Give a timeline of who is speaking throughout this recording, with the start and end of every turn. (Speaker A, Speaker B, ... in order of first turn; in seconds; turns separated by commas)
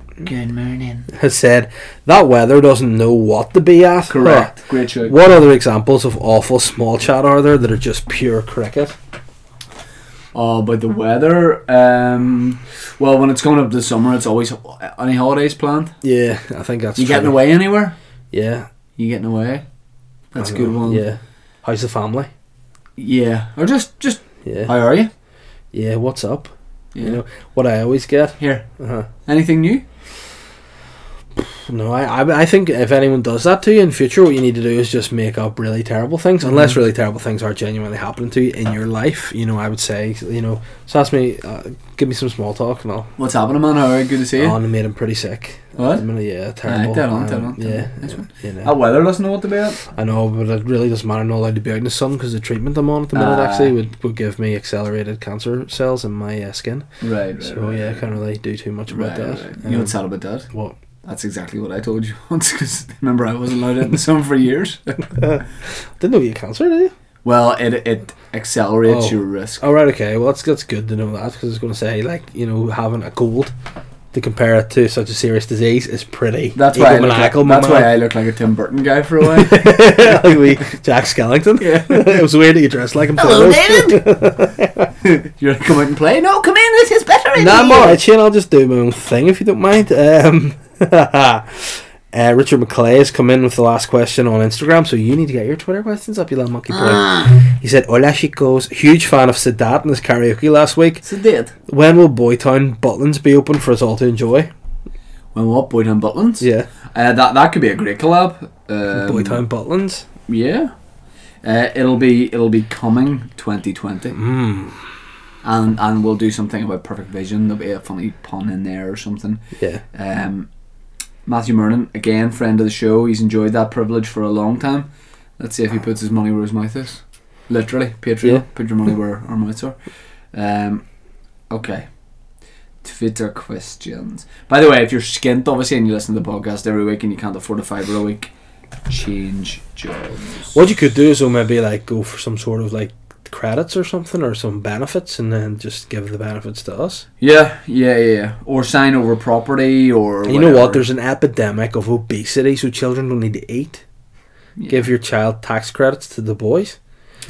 Speaker A: 0.2-1.0, Speaker B: 1.1-9.0, Speaker C: 4.1-5.1, Speaker C: 10.3-15.9, Speaker B: 16.0-17.4, Speaker C: 16.9-17.9, Speaker B: 18.3-18.7, Speaker C: 19.0-19.6, Speaker C: 20.3-21.0, Speaker B: 20.4-22.3, Speaker C: 23.0-25.1, Speaker B: 24.4-24.7, Speaker B: 25.7-29.1, Speaker C: 26.9-27.2, Speaker C: 28.4-28.7, Speaker C: 29.2-29.8, Speaker B: 31.4-43.1, Speaker C: 36.4-36.7, Speaker C: 43.2-44.6, Speaker B: 44.4-48.7, Speaker C: 45.8-46.0, Speaker C: 46.6-49.8, Speaker B: 49.9-56.9, Speaker C: 53.1-53.7, Speaker C: 57.0-58.1, Speaker B: 57.4-59.9, Speaker C: 58.9-60.5, Speaker B: 60.5-60.7, Speaker C: 61.0-65.1, Speaker B: 65.1-66.9, Speaker C: 67.2-69.6, Speaker B: 68.8-73.5, Speaker B: 74.1-77.9, Speaker C: 76.5-80.1, Speaker B: 79.3-84.9, Speaker C: 81.6-82.2, Speaker A: 83.2-84.0, Speaker C: 85.0-87.8, Speaker A: 87.3-88.0, Speaker B: 87.4-101.0, Speaker C: 101.0-101.5, Speaker B: 101.7-104.5, Speaker C: 105.3-109.4, Speaker B: 106.4-106.7, Speaker B: 108.9-110.0, Speaker C: 110.3-110.7, Speaker C: 111.4-114.2, Speaker B: 114.1-114.8, Speaker C: 115.4-120.5, Speaker B: 119.6-119.8, Speaker C: 121.2-129.8, Speaker C: 130.3-130.8, Speaker C: 131.5-131.9, Speaker C: 132.8-138.3, Speaker C: 138.9-140.6, Speaker B: 140.5-147.1, Speaker C: 147.2-150.8, Speaker B: 150.3-153.8, Speaker C: 154.6-154.9, Speaker B: 154.7-156.8